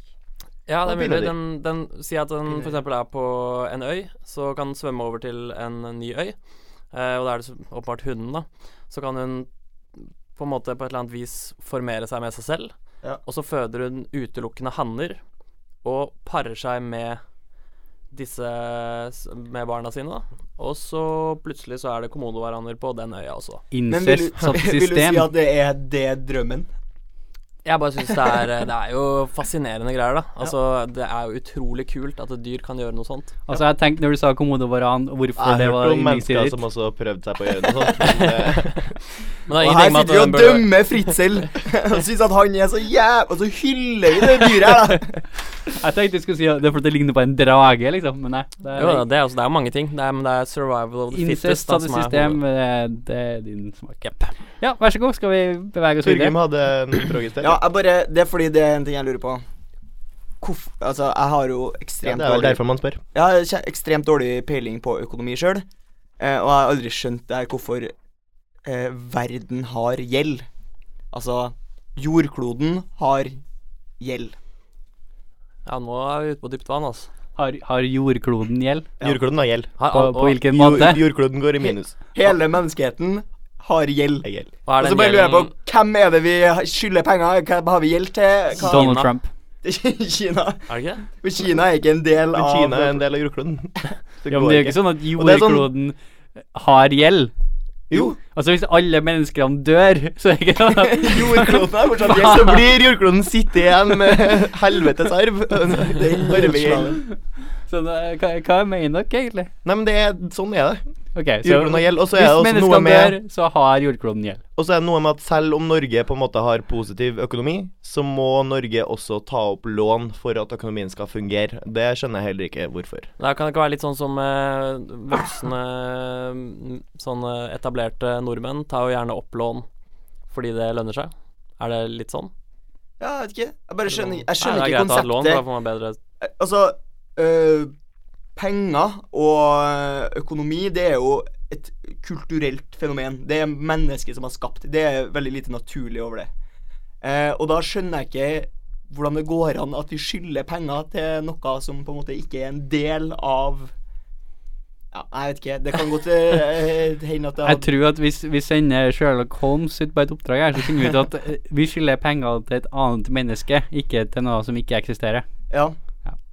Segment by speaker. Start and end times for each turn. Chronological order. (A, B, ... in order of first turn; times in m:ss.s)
0:00.7-0:06.4 A
0:00.8-0:01.3 B
0:02.5-0:02.8 C
0:06.9-0:15.2 A
0:15.8-0:17.2 A
0:18.1-0:23.6 A
0:23.7-0:25.3 D
0:23.9-0:26.7 C
0:27.6-0:33.4 A
0:33.5-0:36.6 D
0:35.4-0:39.0 B
0:38.0-0:38.9 A
0:39.4-0:41.1 A
0:39.6-0:45.3 C
0:45.8-0:49.0 D
0:48.8-0:52.4 A
0:51.1-0:56.4 D
0:56.0-0:57.6 B
0:57.4-0:59.4 C
1:00.4-1:02.6 C
1:02.0-1:03.0 B
1:03.1-1:05.6 C
1:06.2-1:07.9 C
1:08.6-1:10.4 C
1:11.1-1:13.4 C
1:14.0-1:14.3 C
1:15.6-1:17.1 A
1:17.4-1:18.9 D
1:19.0-1:19.8 B
1:19.8-1:20.4 A
1:19.9-1:21.0 D
1:20.4-1:22.0 B
1:21.7-1:24.3 C
1:24.2-1:24.5 B
1:24.6-1:25.5 A
1:24.8-1:29.1 C
1:28.6-1:29.0 A
1:28.6-1:29.3 D
1:29.6-1:33.0 C
1:30.7-1:31.0 A
1:32.3-1:35.7 B
1:34.3-1:36.0 D
1:36.5-1:37.3 D
1:37.9-1:38.2 B
1:37.9-1:42.3 D
1:40.9-1:42.7 C
1:42.1-1:47.0 B
1:45.9-1:47.0 C
1:47.0-1:49.5 D
1:49.6-1:50.8 B
1:51.1-1:54.4 D
1:51.4-1:53.2 B
1:54.6-2:03.1 B
2:03.2-2:09.6 A
2:10.3-2:12.3 A
2:13.0-2:15.4 C
2:13.9-2:16.0 A
2:16.2-2:17.7 C
2:18.4-2:26.3 C
2:27.0-2:33.7 C
2:34.9-2:37.7 C
2:37.4-2:45.2 D
2:45.5-2:45.8 C